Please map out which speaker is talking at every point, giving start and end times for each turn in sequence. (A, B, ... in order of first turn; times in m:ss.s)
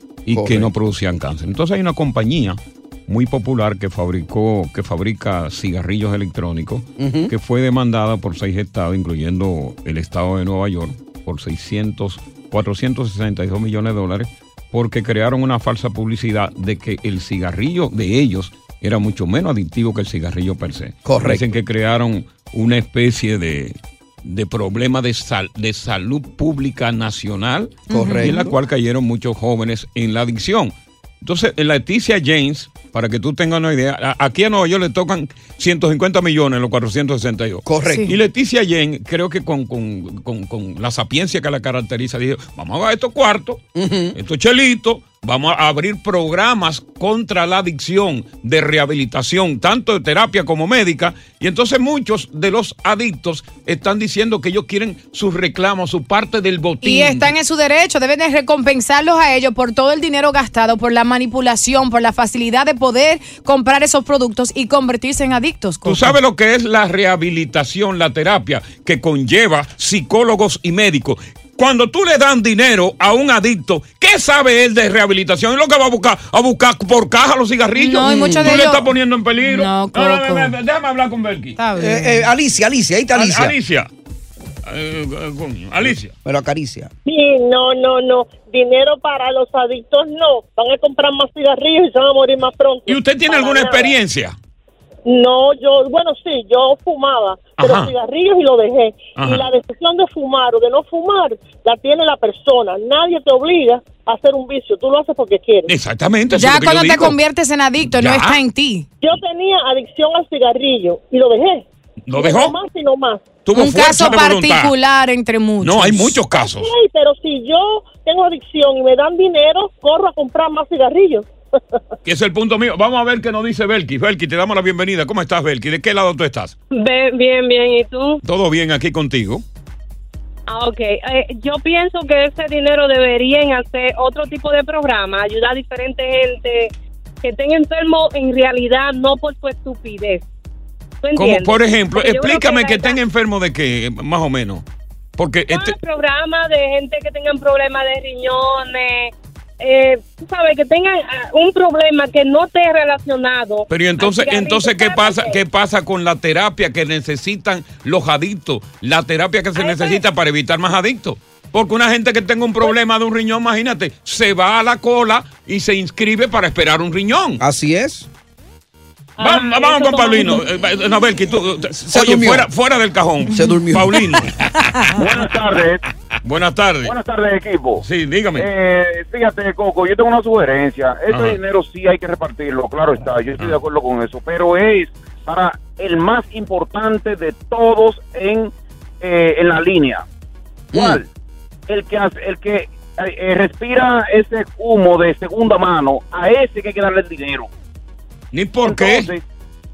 0:00.2-0:43.6 A
0:00.3-0:00.7 B
0:07.0-0:07.3 B
0:21.0-0:21.4 B
0:27.9-0:28.3 C
0:27.9-0:28.5 B
0:37.6-0:38.1 B
0:43.7-0:44.2 B
0:44.1-0:57.3 A
0:56.8-1:06.2 C
1:05.8-1:21.6 A
1:17.8-1:18.8 C
1:18.1-1:18.6 B
1:19.4-1:20.5 C
1:21.6-1:22.3 C
1:21.8-1:23.5 B
1:23.1-1:23.9 A
1:24.6-1:26.1 A
1:26.2-1:26.9 B
1:27.0-1:33.9 D
1:32.9-1:34.4 A
1:35.0-1:45.7 D
1:37.6-1:37.9 A
1:39.2-1:39.4 A
1:45.7-1:47.2 A
1:46.3-1:48.9 C
1:47.9-1:48.4 A
1:49.0-1:53.4 D
1:52.1-1:52.5 A
1:53.4-1:54.7 A
1:53.5-1:56.2 C
1:55.6-1:56.7 A
1:56.3-2:01.3 D
2:02.0-2:06.5 A
2:06.7-2:08.2 E
2:08.2-2:09.4 A
2:10.5-2:20.2 E
2:21.0-2:23.0 E
2:21.1-2:24.6 A
2:25.2-2:25.8 A
2:25.5-2:35.4 E
2:33.7-2:47.4 A
2:39.6-2:40.0 E
2:47.4-2:48.1 B
2:49.2-2:50.4 E
2:49.2-2:55.1 A
2:51.9-2:52.5 B
2:53.3-2:54.2 B
2:54.9-2:55.8 F
2:56.2-2:56.9 A
2:56.8-2:57.8 F
2:57.8-2:58.5 A
2:58.4-3:10.0 F
3:01.1-3:01.4 A
3:10.7-3:11.0 B
3:10.7-3:11.1 F
3:11.7-3:17.5 F
3:18.3-3:19.1 A
3:18.6-3:19.2 F